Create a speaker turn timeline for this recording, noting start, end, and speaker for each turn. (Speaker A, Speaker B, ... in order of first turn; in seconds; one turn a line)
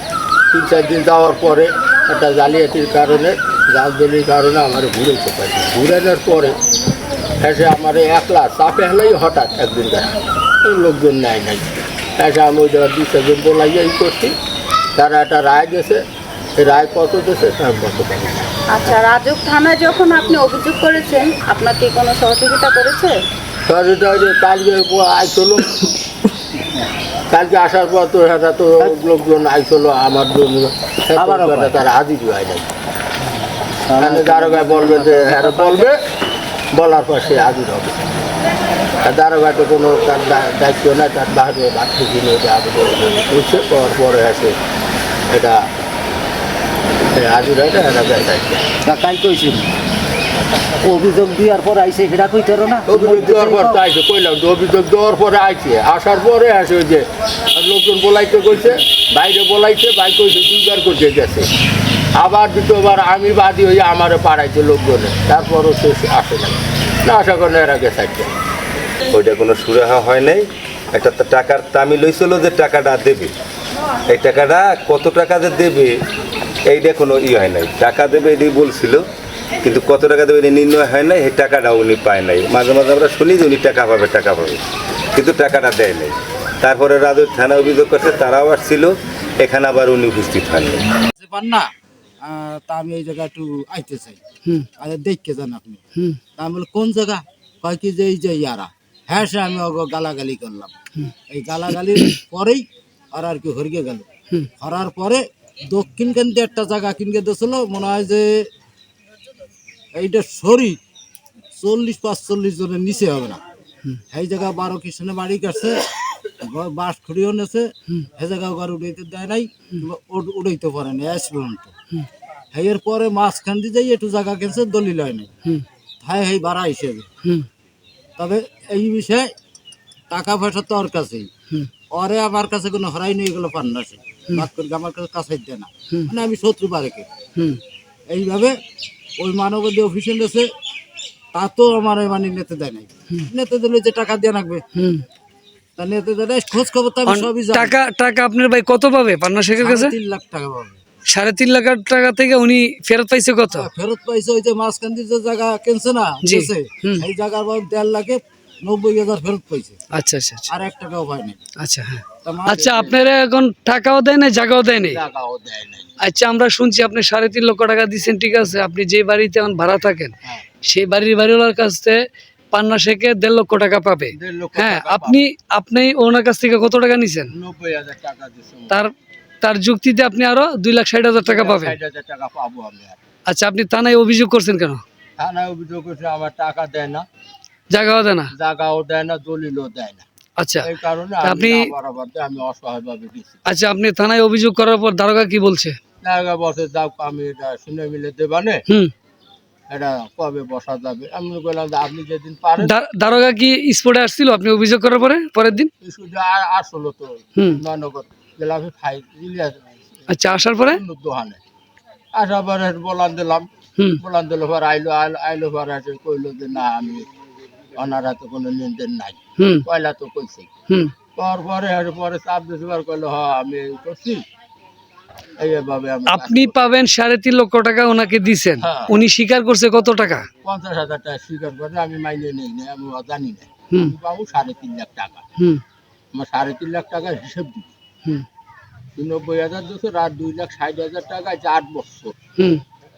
Speaker A: 0.5-6.6
Speaker A: 7.4-14.3
Speaker A: 15.0-16.0
Speaker A: 16.6-18.9
Speaker B: 18.7-23.2
Speaker A: 23.7-25.9
Speaker A: 27.3-32.7
Speaker C: 31.2-31.8
Speaker C: 33.8-35.9
Speaker A: 34.0-35.9
Speaker A: 36.7-38.1
Speaker A: 39.0-44.5
Speaker A: 45.3-45.7
Speaker A: 47.1-48.6
Speaker C: 48.8-49.7
Speaker C: 50.8-53.8
Speaker A: 52.9-61.5
Speaker A: 62.2-68.3
Speaker D: 69.1-73.3
Speaker D: 74.1-76.0
Speaker D: 76.7-79.1
Speaker D: 79.6-84.6
Speaker D: 85.1-91.0
Speaker C: 91.2-94.2
Speaker C: 94.8-95.8
Speaker C: 96.4-100.7
Speaker C: 101.3-104.0
Speaker C: 104.6-108.5
Speaker C: 109.9-110.8
Speaker C: 111.6-113.4
Speaker C: 114.1-121.7
Speaker C: 122.5-125.3
Speaker C: 126.0-127.1
Speaker C: 128.2-129.3
Speaker C: 130.1-131.3
Speaker C: 131.9-137.1
Speaker C: 138.1-138.6
Speaker C: 139.2-140.5
Speaker C: 141.3-144.6
Speaker E: 144.8-145.0
Speaker C: 145.8-147.8
Speaker E: 147.1-149.9
Speaker C: 149.6-150.8
Speaker E: 151.1-153.7
Speaker C: 153.5-159.8
Speaker E: 156.2-157.1
Speaker E: 159.9-160.5
Speaker C: 160.5-161.4
Speaker E: 161.6-165.0
Speaker C: 162.2-162.6
Speaker A: 162.6-163.0
Speaker A: 164.9-165.9
Speaker E: 166.1-170.1
Speaker E: 170.7-172.0
Speaker E: 172.5-177.3
Speaker A: 174.1-175.2
Speaker A: 177.3-178.8
Speaker E: 179.4-181.7
Speaker A: 181.2-183.0
Speaker E: 183.3-184.8
Speaker A: 185.2-187.1
Speaker E: 187.7-188.3
Speaker A: 188.3-190.1
Speaker E: 190.4-190.7
Speaker A: 190.6-193.4
Speaker E: 191.2-191.6
Speaker E: 193.5-195.8
Speaker A: 196.0-198.6
Speaker A: 199.7-202.7
Speaker E: 202.6-205.7
Speaker A: 205.8-211.4
Speaker E: 210.1-210.8
Speaker A: 212.1-213.5
Speaker A: 214.0-217.1
Speaker A: 217.8-220.5
Speaker A: 221.2-224.2
Speaker A: 225.4-226.6
Speaker E: 226.1-230.3
Speaker A: 228.6-228.9
Speaker A: 230.4-235.2
Speaker A: 236.1-237.7
Speaker A: 239.0-242.2